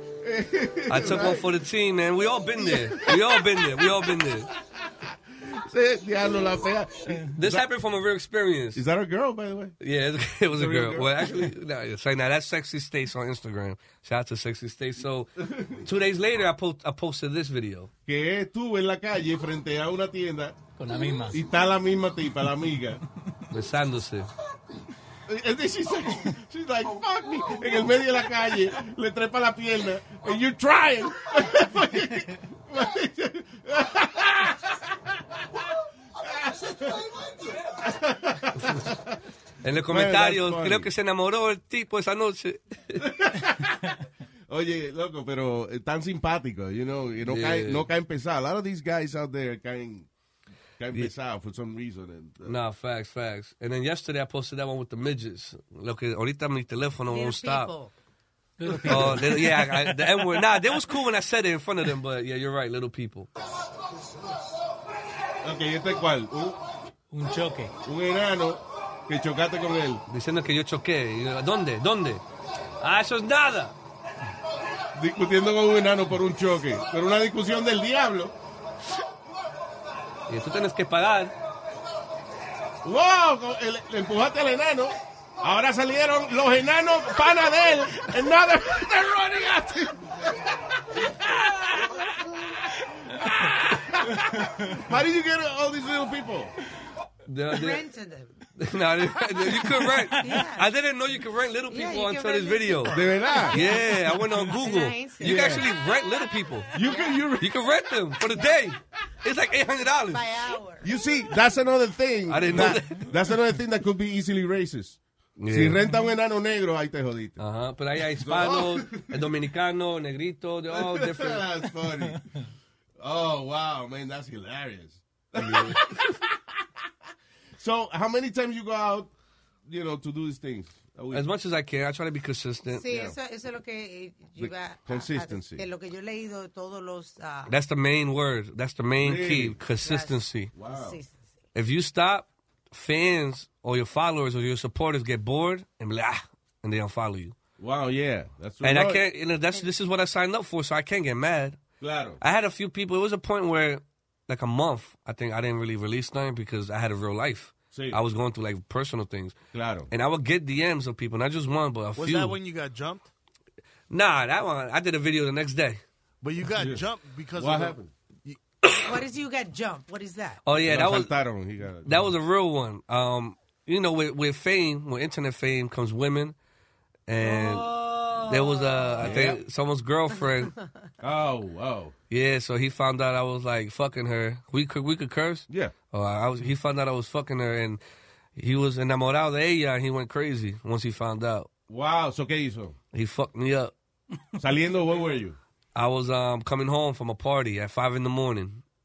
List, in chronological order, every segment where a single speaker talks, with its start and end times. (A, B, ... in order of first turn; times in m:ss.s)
0:00.2-0:01.5 A
0:00.9-0:04.5 B
0:02.6-0:07.7 A
0:07.4-0:08.8 B
0:08.8-0:09.8 A
0:09.8-0:17.9 B
0:10.5-0:11.5 A
0:15.4-0:15.8 A
0:18.1-0:20.6 A
0:20.8-0:21.4 C
0:21.3-0:23.0 A
0:23.5-0:24.3 B
0:25.3-0:39.2 A
0:39.6-0:43.1 B
0:39.9-0:40.9 A
0:43.0-0:50.1 A
0:47.2-0:47.9 B
0:50.8-0:52.6 A
0:52.4-0:57.7 B
0:57.1-0:57.9 D
0:58.6-0:59.8 C
0:58.8-1:03.3 B
1:05.4-1:06.6 A
1:07.1-1:07.8 C
1:07.8-1:10.0 A
1:10.1-1:12.2 B
1:12.8-1:13.8 B
1:15.0-1:18.4 A
1:20.3-1:21.3 B
1:22.8-1:36.5 A
1:37.3-1:37.8 B
1:37.5-1:38.3 D
1:38.6-1:43.0 B
1:39.8-1:40.4 C
1:40.2-1:40.7 D
1:41.7-1:45.5 D
1:42.9-1:43.6 A
1:43.5-1:46.7 B
1:45.2-1:45.7 A
1:46.7-1:47.6 A
1:46.8-1:47.2 D
1:47.4-1:50.3 B
1:50.1-1:50.9 D
1:50.8-1:57.4 A
1:52.3-1:53.1 B
1:55.4-1:55.8 B
1:57.4-2:01.5 B
1:58.1-1:59.2 A
2:00.7-2:02.2 A
2:03.0-2:06.8 A
2:05.4-2:05.9 B
2:07.6-2:09.1 A
2:09.7-2:11.2 A
2:11.1-2:12.8 B
2:12.7-2:17.5 D
2:12.9-2:13.2 A
2:14.4-2:15.6 A
2:17.5-2:20.5 B
2:19.0-2:19.6 A
2:19.8-2:21.3 D
2:20.6-2:21.0 A
2:21.5-2:27.4 B
2:27.6-2:29.0 A
2:28.6-2:31.6 B
2:31.8-2:32.2 A
2:32.2-2:39.4 B
2:37.7-2:38.0 A
2:39.5-2:39.9 A
2:39.9-2:42.4 B
2:42.0-2:43.1 E
2:43.9-2:45.8 B
2:46.2-2:48.4 E
2:46.6-2:46.8 A
2:47.4-2:47.9 A
2:48.7-2:50.4 D
2:50.4-2:51.2 B
2:50.6-2:52.1 A
2:51.8-2:56.4 B
2:57.1-3:00.6 B
2:57.2-2:59.3 D
2:59.0-2:59.4 A
3:01.0-3:01.9 A
3:02.1-3:07.8 B
3:05.5-3:05.7 A
3:08.4-3:11.5 B
3:11.7-3:12.8 A
3:12.9-3:13.7 B
3:14.4-3:15.4 A
3:15.8-3:18.6 B